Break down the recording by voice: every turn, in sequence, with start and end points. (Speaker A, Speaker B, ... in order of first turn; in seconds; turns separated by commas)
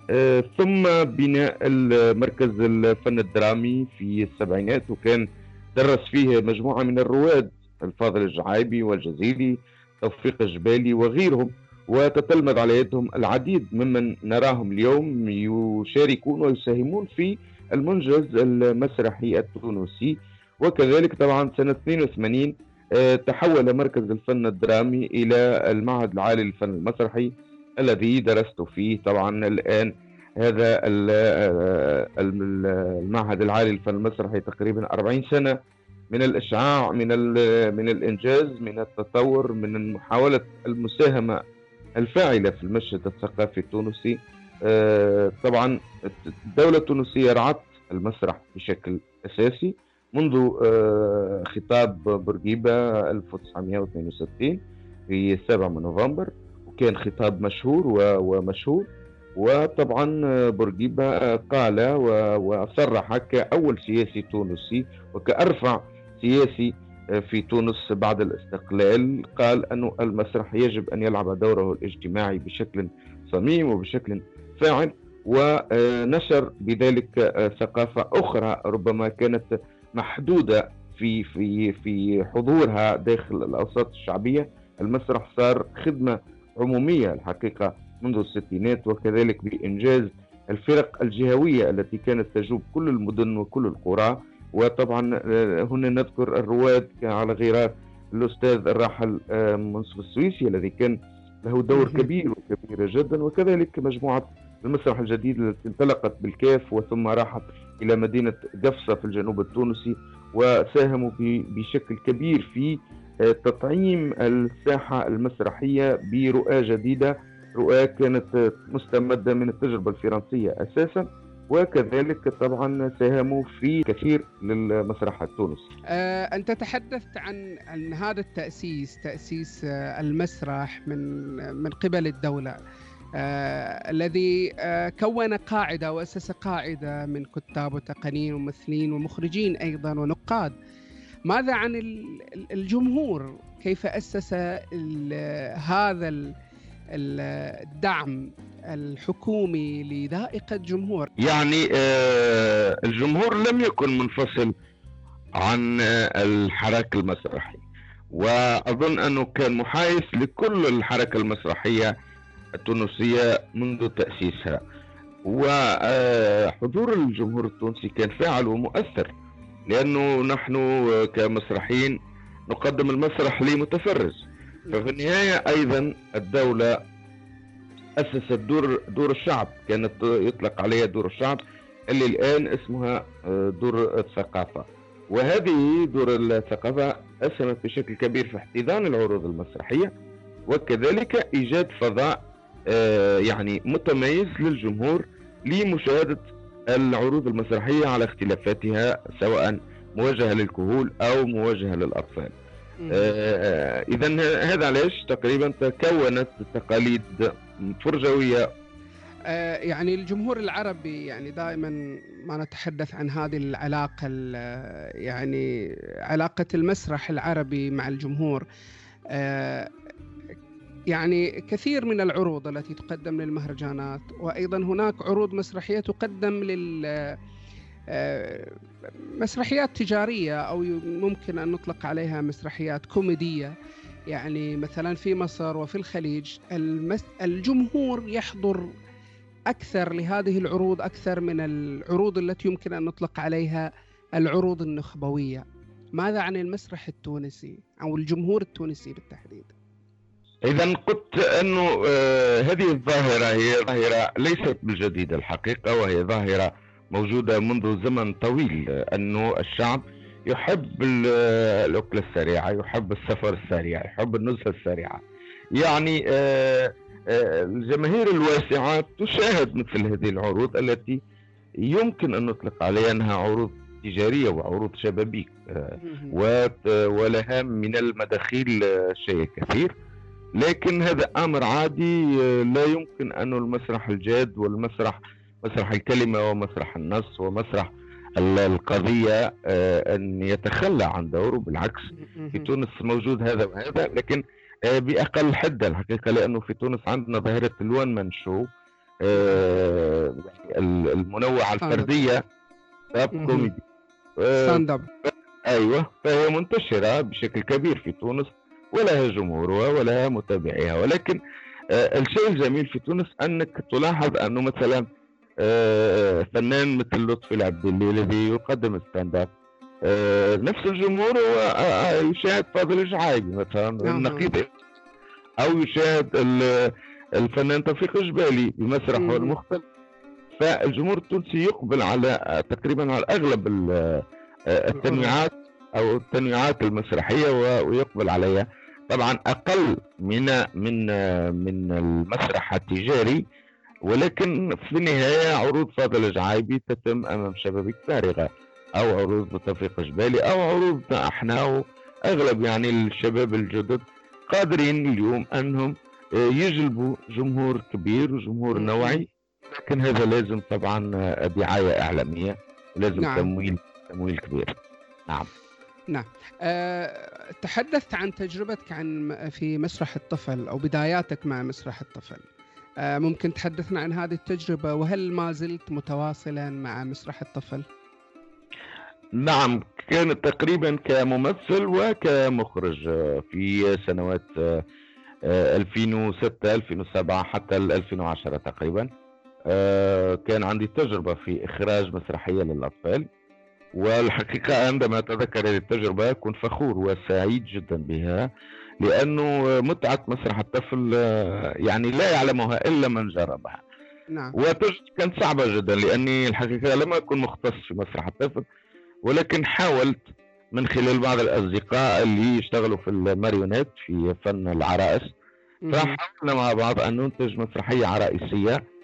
Speaker A: 0.1-35.6, Speaker A: 36.1-41.4, Speaker A: 42.0-66.7, Speaker A: 67.2-125.7, Speaker B: 101.7-102.1, Speaker B: 125.9-131.1, Speaker B: 131.6-132.6, Speaker B: 133.2-140.5, Speaker B: 141.3-146.3, Speaker B: 146.9-151.1, Speaker A: 151.2-154.5, Speaker A: 155.4-161.9, Speaker A: 162.6-164.6, Speaker A: 165.2-169.1, Speaker A: 169.7-171.9, Speaker A: 172.5-176.8, Speaker A: 178.0-189.9, Speaker A: 190.5-202.3, Speaker B: 202.8-203.1, Speaker A: 202.9-208.4, Speaker B: 209.3-211.8, Speaker B: 212.3-215.4, Speaker B: 216.1-218.4, Speaker B: 219.1-219.7, Speaker B: 220.9-227.2, Speaker B: 227.9-228.6, Speaker B: 229.2-233.5, Speaker B: 234.1-238.7, Speaker B: 239.5-245.4, Speaker B: 246.0-249.5, Speaker A: 250.4-265.0, Speaker A: 265.6-271.0, Speaker A: 271.6-279.7, Speaker B: 275.8-276.1, Speaker A: 280.4-298.5, Speaker B: 291.9-292.5, Speaker A: 299.0-302.2, Speaker B: 301.6-301.9, Speaker A: 302.9-303.6, Speaker B: 303.1-303.5, Speaker A: 304.2-311.2, Speaker B: 304.4-304.9, Speaker A: 311.7-314.9, Speaker A: 315.4-319.3, Speaker A: 319.8-324.6, Speaker B: 323.8-324.3, Speaker A: 325.4-329.6, Speaker B: 328.9-329.3, Speaker A: 330.4-343.2, Speaker B: 334.7-335.1, Speaker A: 343.9-365.3, Speaker B: 358.5-359.0, Speaker B: 363.0-363.3, Speaker B: 365.9-372.2, Speaker B: 372.8-377.7, Speaker A: 379.2-384.6, Speaker A: 385.3-388.9, Speaker A: 389.5-393.1, Speaker A: 393.8-398.3, Speaker A: 398.8-403.6, Speaker B: 404.1-404.4, Speaker A: 404.3-408.4, Speaker A: 409.1-410.0, Speaker A: 410.5-415.1, Speaker B: 415.6-416.0, Speaker A: 415.7-418.6